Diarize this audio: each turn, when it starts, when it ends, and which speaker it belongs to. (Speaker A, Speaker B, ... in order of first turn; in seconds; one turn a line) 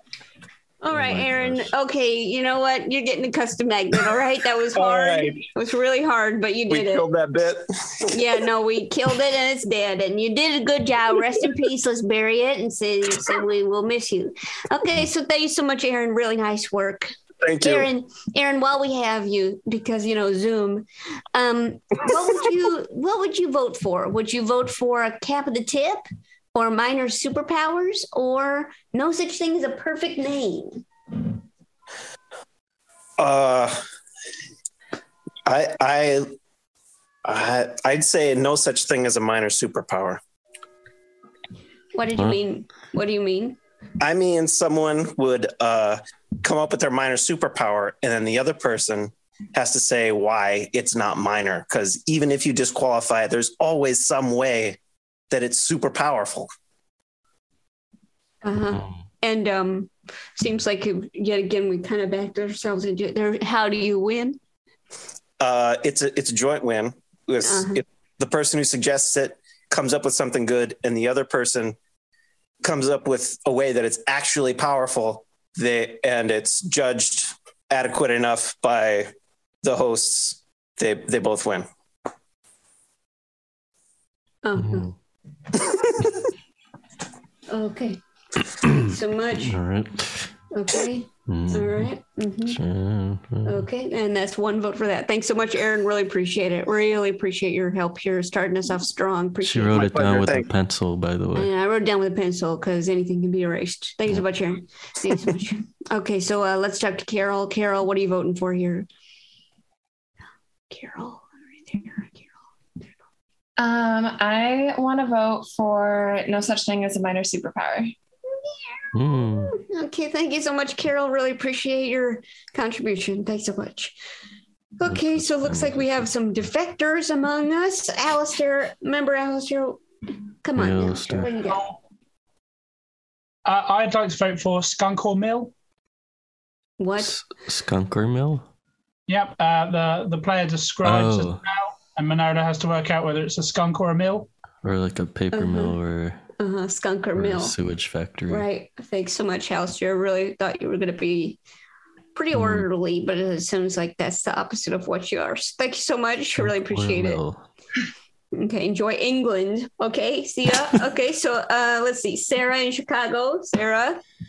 Speaker A: 0.8-7.1
Speaker B: 0.9-1.7
Speaker C: 4.7-5.4
Speaker C: 6.7-8.2
Speaker A: 8.1-30.8
Speaker C: 17.4-17.9
Speaker C: 33.2-33.8
Speaker C: 35.5-36.3
Speaker C: 37.2-40.2
Speaker A: 42.0-43.6
Speaker C: 44.0-54.8
Speaker C: 55.3-56.5
Speaker A: 58.4-64.4
Speaker C: 65.4-71.8
Speaker A: 67.4-67.8
Speaker C: 72.6-79.1
Speaker C: 79.6-81.7
Speaker A: 84.4-84.9
Speaker B: 84.6-84.9
Speaker A: 87.5-88.0
Speaker A: 88.7-89.6
Speaker B: 89.4-90.3
Speaker A: 90.5-92.6
Speaker B: 91.3-91.9
Speaker B: 92.5-93.7
Speaker A: 93.5-100.1
Speaker B: 99.4-101.5
Speaker C: 99.8-100.5
Speaker A: 101.4-108.9
Speaker A: 110.7-112.3
Speaker D: 113.6-117.9
Speaker B: 118.9-119.5
Speaker A: 119.5-124.0
Speaker A: 124.8-129.8
Speaker B: 124.9-126.0
Speaker A: 130.4-131.7
Speaker B: 130.6-131.3
Speaker E: 133.5-135.5
Speaker A: 136.8-137.2
Speaker B: 137.0-138.5
Speaker E: 139.1-144.3
Speaker B: 140.8-141.4
Speaker B: 144.6-146.2
Speaker A: 145.3-145.8
Speaker A: 146.4-147.5
Speaker B: 147.2-148.5
Speaker A: 148.3-151.4
Speaker A: 152.2-157.2
Speaker B: 152.3-152.7
Speaker B: 156.4-157.4
Speaker A: 158.3-164.0